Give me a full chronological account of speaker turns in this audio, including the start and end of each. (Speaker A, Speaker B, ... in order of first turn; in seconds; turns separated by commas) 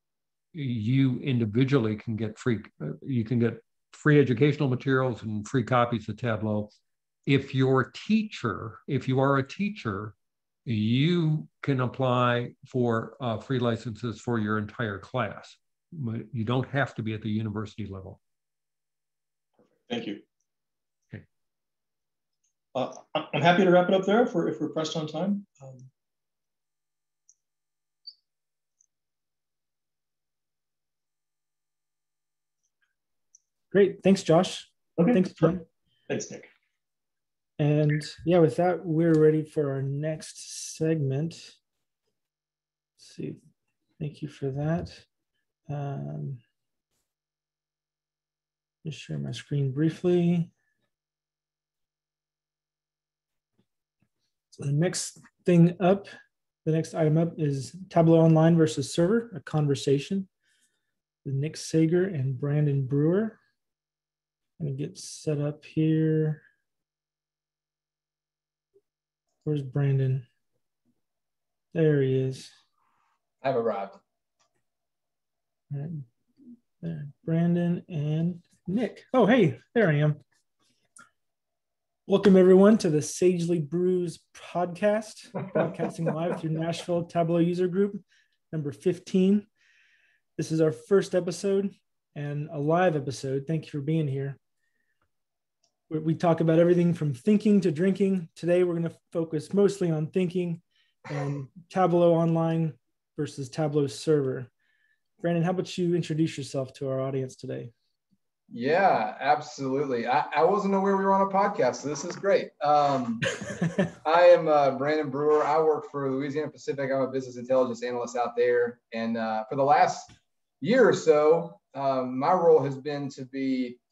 Speaker A: 0.5-6.7, Speaker A: 7.3-10.2, Speaker A: 10.7-18.2, Speaker B: 19.6-20.2, Speaker B: 22.7-25.9, Speaker C: 33.7-35.6, Speaker B: 35.0-35.6, Speaker B: 36.1-36.5, Speaker C: 37.6-41.5, Speaker C: 43.0-43.4, Speaker C: 44.0-45.0, Speaker C: 45.7-46.4, Speaker C: 48.8-50.5, Speaker C: 54.6-56.1, Speaker C: 56.6-60.3, Speaker C: 61.2-63.4, Speaker C: 64.6-66.4, Speaker C: 69.5-70.3, Speaker C: 71.7-72.5, Speaker D: 73.4-74.0, Speaker C: 75.7-76.1, Speaker C: 76.8-80.2, Speaker C: 82.1-89.5, Speaker C: 90.4-94.4, Speaker C: 95.9-104.5, Speaker C: 105.2-107.7, Speaker D: 108.5-113.4, Speaker D: 114.0-123.8